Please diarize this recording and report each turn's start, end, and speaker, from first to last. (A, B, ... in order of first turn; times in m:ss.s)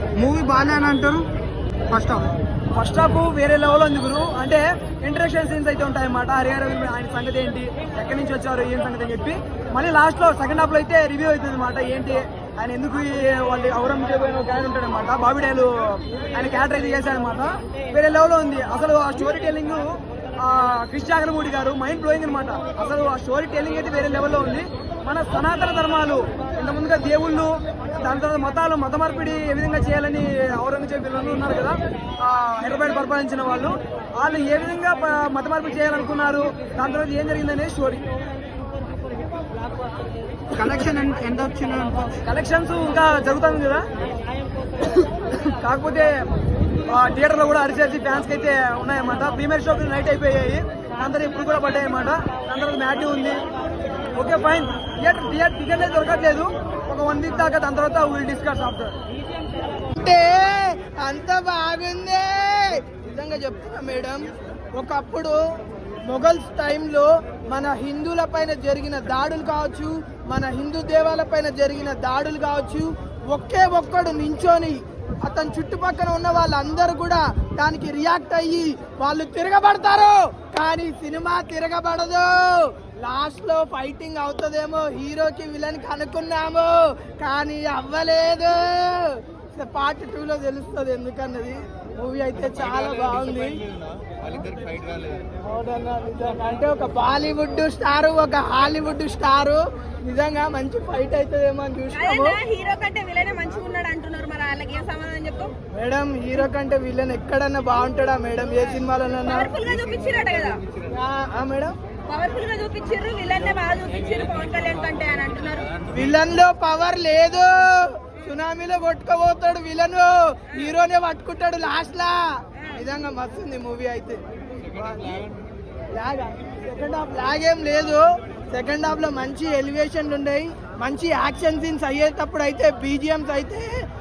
0:00.2-0:01.3 A
0:01.9-0:02.2 A
0:02.8-0:38.0 B
0:40.5-0:42.2 A
0:42.2-0:43.8 B
0:45.4-0:46.1 B
0:46.9-0:53.4 B
0:54.1-0:58.9 B
0:59.9-1:05.4 C
1:06.1-1:33.6 C
1:34.1-1:35.2 D
1:35.4-1:42.4 C
1:41.9-1:45.5 D
1:45.7-1:49.6 C
1:49.3-1:50.7 D
1:50.9-1:51.7 C
1:52.1-1:55.9 D
1:55.9-2:02.2 C
2:02.8-2:05.2 C
2:05.9-2:13.7 C